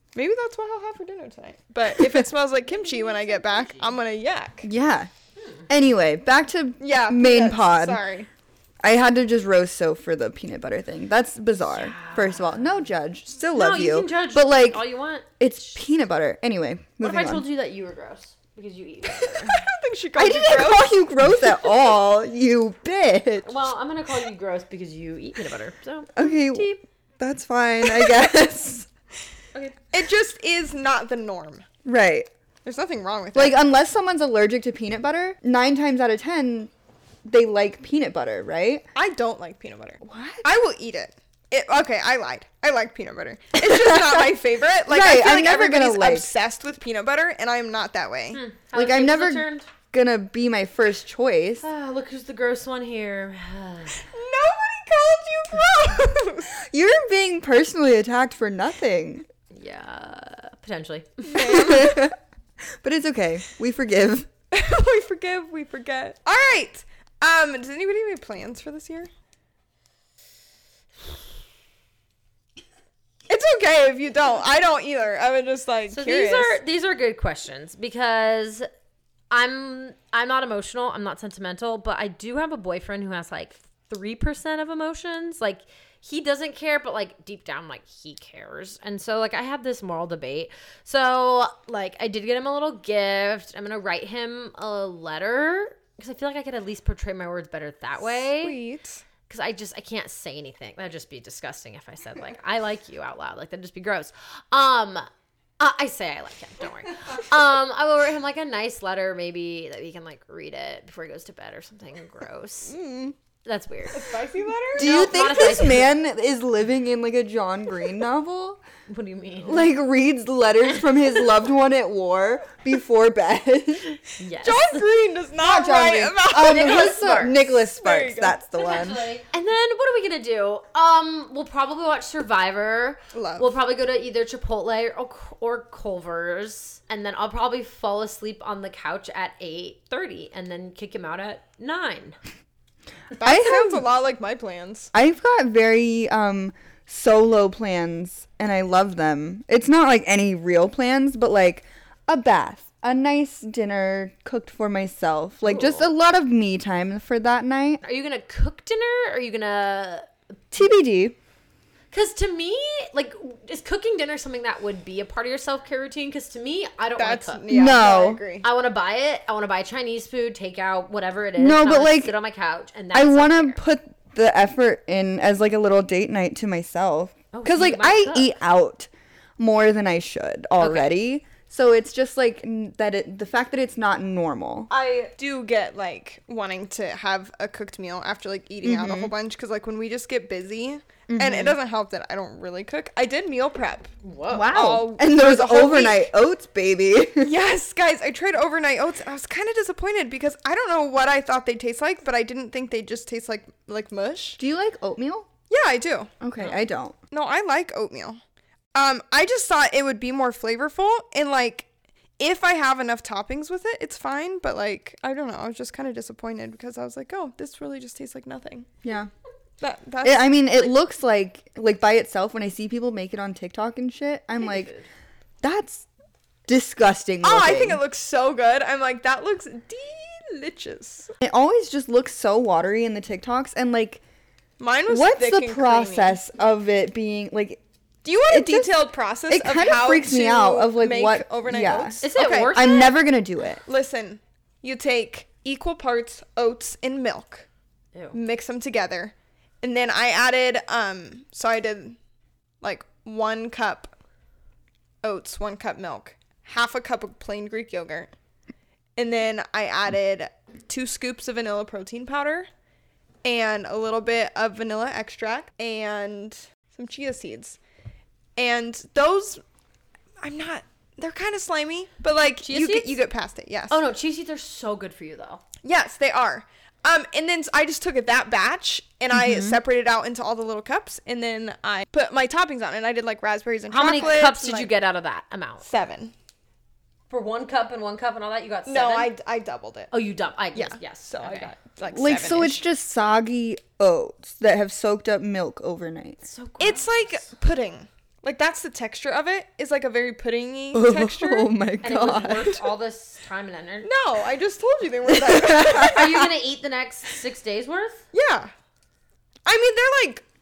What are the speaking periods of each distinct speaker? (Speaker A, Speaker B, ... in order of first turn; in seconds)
Speaker A: 0.1-4.7, 6.8-8.3, 19.2-20.9, 29.6-31.6, 32.6-33.6, 38.9-48.4, 54.0-56.5, 61.2-62.1, 64.5-69.1, 73.3-76.6, 98.2-99.0, 112.7-113.2, 113.9-115.0, 124.4-128.4, 133.1-133.5, 143.2-144.9, 167.0-168.4, 184.7-193.9, 194.5-196.1, 197.2-204.4, 205.5-206.1, 207.1-208.2, 208.7-211.7, 212.2-218.7, 219.6-220.7, 227.2-231.1, 234.6-236.2, 238.0-242.9, 243.7-247.5, 248.1-252.0, 252.6-253.9, 255.0-258.1, 259.0-262.5, 263.2-267.6, 268.4-269.4, 270.2-273.8, 275.6-284.7, 285.6-286.1, 288.7-289.9, 290.6-292.6, 296.6-301.5, 303.8-306.2, 308.1-308.5, 309.4-310.2
Speaker B: 2.7-4.0, 5.4-5.7, 11.7-12.9, 13.5-15.8, 17.0-19.6, 23.4-26.8, 48.3-49.7, 51.6-54.0, 59.5-61.6, 75.9-78.7, 79.3-98.6, 99.3-105.1, 105.6-112.7, 113.4-114.1, 114.8-115.9, 118.9-119.7, 124.2-124.8, 126.4-127.4, 128.6-142.2, 155.5-155.8, 157.8-160.1, 161.9-167.5, 168.4-173.6, 177.3-178.3, 180.6-180.9, 194.0-194.6, 224.4-224.8, 242.0-242.9, 272.4-273.0, 273.7-275.4, 283.7-285.6, 287.1-289.1, 289.9-291.5, 296.2-297.3, 301.8-303.9, 305.6-308.0
Speaker C: 4.6-5.1, 5.7-8.0, 8.8-14.8, 15.4-17.4, 20.1-23.5, 26.1-28.9, 31.9-32.3, 33.3-36.7, 37.2-38.9, 40.0-40.5, 43.6-44.3, 44.9-46.3, 48.7-51.6, 56.6-59.2, 61.4-62.1, 62.8-64.3, 114.8-118.6, 119.5-124.0, 125.4-129.1, 143.2-143.8, 144.9-157.8, 160.5-161.2, 167.5-168.2, 171.4-172.1, 172.9-184.7, 188.6-189.1, 191.1-191.6, 194.3-197.3, 204.4-205.3, 206.2-206.9, 218.8-219.1, 220.0-224.7, 225.4-225.9, 226.5-227.8, 231.2-234.0, 234.9-237.6, 238.3-243.6, 279.1-279.6, 291.9-296.2, 300.7-302.6, 305.1-306.3